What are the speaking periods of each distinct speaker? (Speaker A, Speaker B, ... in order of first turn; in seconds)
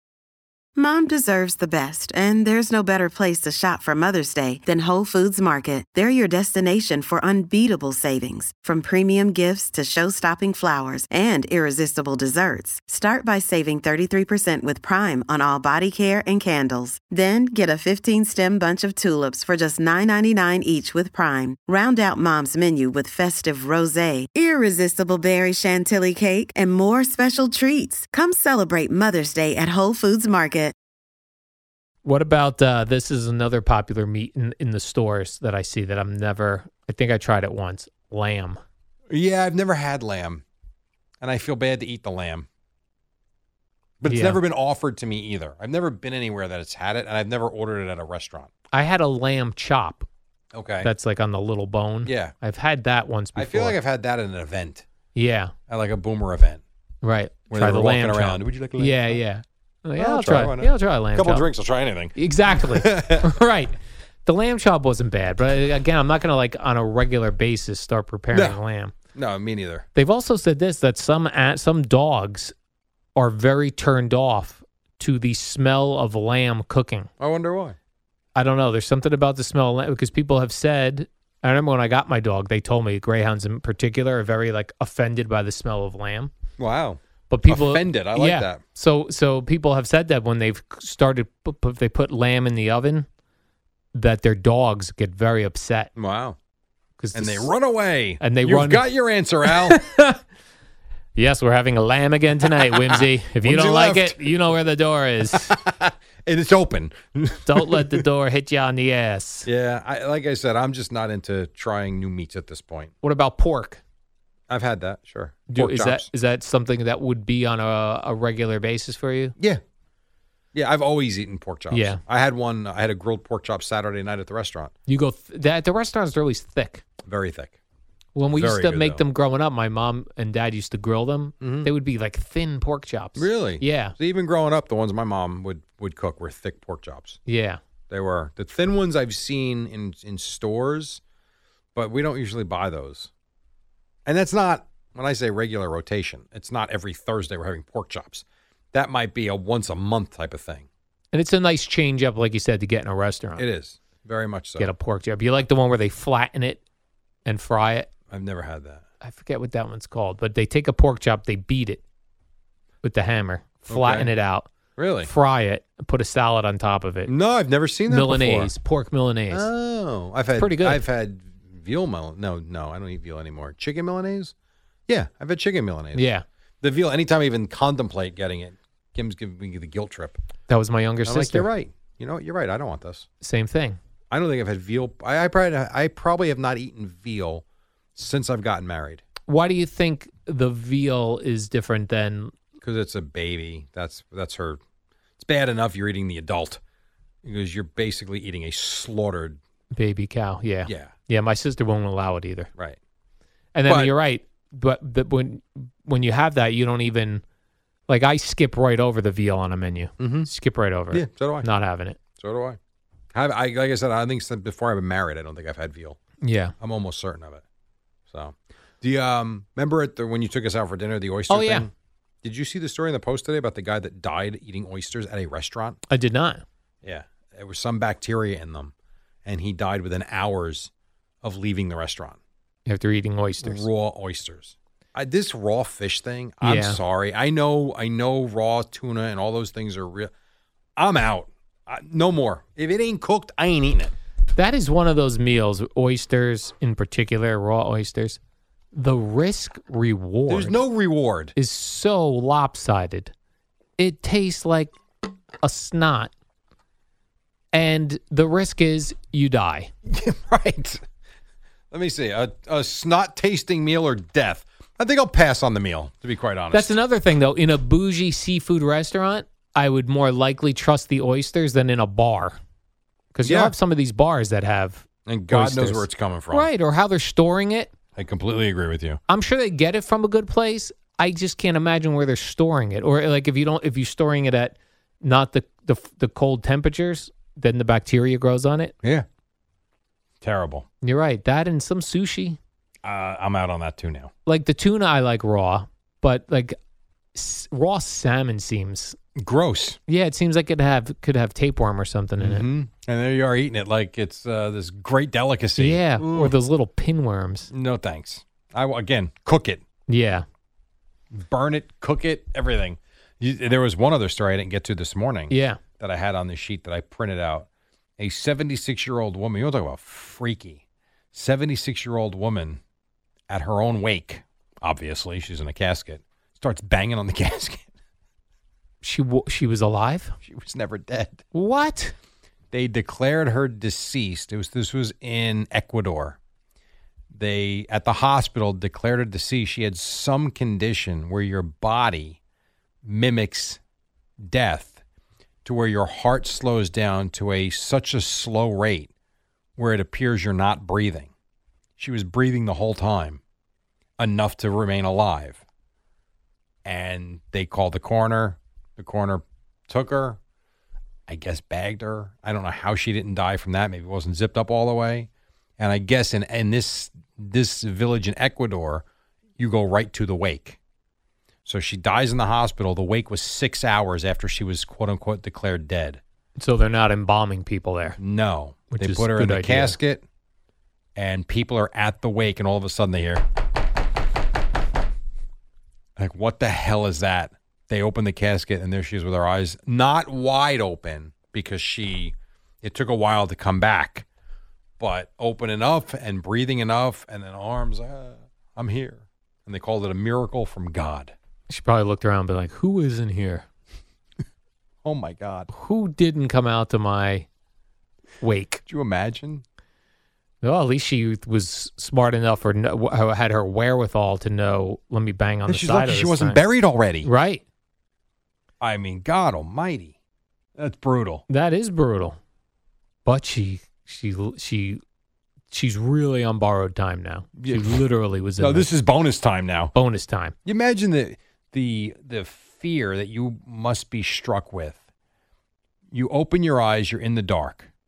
Speaker A: 0.8-30.7
Speaker B: 32.0-38.6, 44.0-44.4, 48.7-50.0, 50.8-53.8, 55.1-55.5, 57.0-61.5, 62.1-68.9, 69.9-72.5, 73.2-77.1, 78.3-86.3, 87.3-93.1, 93.9-95.9, 97.0-97.5, 98.2-98.8, 99.5-100.2, 101.2-105.5, 107.5-109.5, 113.0-113.8, 115.5-119.3, 121.7-122.0, 124.9-126.8, 128.2-133.9, 137.3-137.6, 151.1-153.4, 154.6-156.6, 157.2-157.9, 159.0-161.8, 162.8-164.5, 165.0-167.1, 167.9-169.5, 170.4-170.8, 175.9-176.2, 180.5-181.5, 183.2-183.8, 189.3-192.3, 199.7-202.5, 203.5-207.2, 207.9-212.0, 216.2-216.5, 221.3-221.7, 225.9-226.4, 232.7-233.7, 236.4-236.8, 244.3-248.2, 248.7-250.6, 251.3-253.1, 253.8-254.7, 255.4-256.1, 257.5-259.7, 266.5-272.4, 273.1-277.7, 279.1-288.7, 290.8-292.4, 294.2-296.6, 297.1-299.0, 299.9-302.5, 305.6-307.5, 309.9-310.2, 315.3-315.6, 328.8-330.1, 331.3-331.9, 376.4-378.0, 378.7-379.8, 401.5-403.4, 405.5-407.3, 408.2-408.6, 410.4-416.4, 417.0-417.4, 421.3-422.2, 423.0-424.8, 425.5-428.7, 429.7-430.3
Speaker C: 39.1-40.4, 41.2-42.5, 44.0-48.5, 50.5-50.9, 52.0-52.3, 53.3-54.9, 55.7-56.6, 57.5-59.2, 60.0-63.3, 68.3-68.6, 69.1-69.8, 77.2-77.8, 86.6-88.6, 96.0-96.3, 97.1-99.8, 102.4-104.3, 105.3-108.0, 109.4-112.9, 114.5-116.1, 120.5-124.7, 127.0-127.6, 128.3-129.0, 131.4-131.7, 133.2-137.2, 137.9-141.0, 141.7-143.1, 144.1-150.7, 153.4-154.7, 158.1-158.8, 163.7-164.1, 164.8-165.1, 167.1-168.5, 169.3-174.3, 174.9-176.1, 176.6-180.2, 181.0-183.1, 184.1-187.4, 187.9-189.0, 192.6-194.6, 195.2-196.6, 197.2-199.4, 200.7-200.9, 203.7-203.9, 210.0-210.3, 210.9-211.5, 212.2-212.6, 213.1-216.0, 216.6-217.4, 218.1-221.7, 222.2-225.8, 226.8-228.7, 229.2-230.7, 231.2-232.2, 233.4-240.1, 240.8-243.9, 250.3-251.3, 259.9-260.8, 261.7-266.8, 273.2-273.5, 275.1-276.5, 277.9-279.0, 290.2-290.6, 292.8-294.1, 299.1-299.8, 302.2-306.3, 307.5-309.6, 311.1-317.5, 318.0-320.6, 321.1-322.6, 323.3-327.6, 330.2-331.2, 332.5-336.2, 337.1-342.2, 342.8-343.6, 344.2-344.8, 345.4-348.9, 349.6-351.1, 351.8-353.2, 354.0-355.4, 356.6-360.2, 361.1-368.8, 369.4-370.6, 371.4-376.0, 378.0-380.0, 380.9-383.2, 386.0-394.0, 394.8-401.1, 404.8-405.5, 408.7-409.4, 415.5-417.1, 418.6-419.9, 420.6-421.2, 427.4-427.8, 428.4-429.7, 430.4-434.8, 435.9-437.7